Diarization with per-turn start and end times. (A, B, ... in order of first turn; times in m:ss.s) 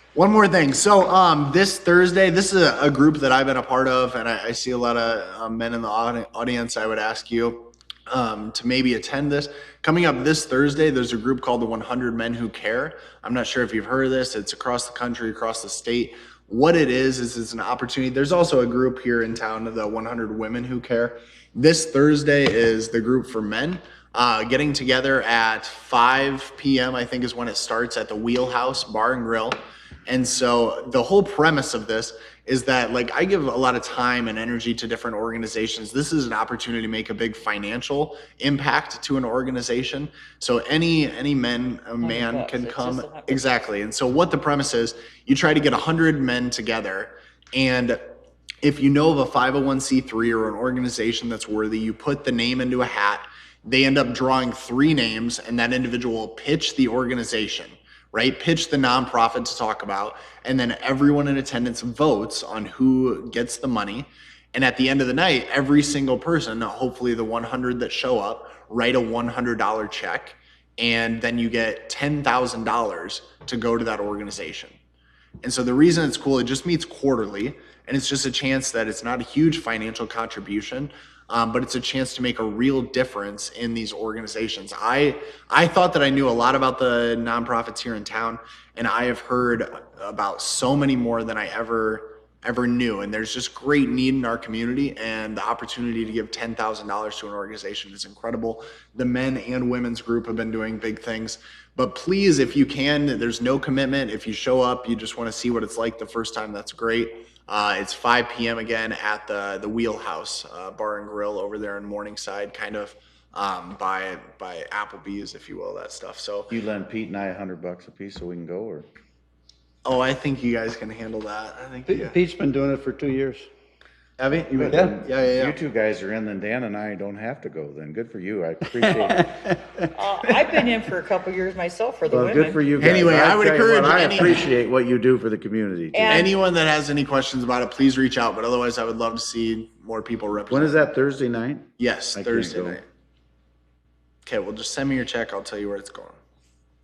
0:00.1-0:48.0 A
0:42.0-0:43.6 B
0:48.6-1:14.8 A
1:15.4-1:56.5 A
1:56.5-1:58.9 C
1:59.8-2:02.2 A
2:01.9-2:03.4 D
2:04.2-2:05.6 A
2:04.4-2:09.3 C
2:09.1-2:09.4 D
2:09.9-2:12.6 B
2:12.1-2:16.3 C
2:12.8-2:14.5 A
2:15.9-2:16.3 B
2:16.1-2:20.8 A
2:20.5-2:22.8 C
2:21.8-2:22.8 A
2:24.2-2:26.2 A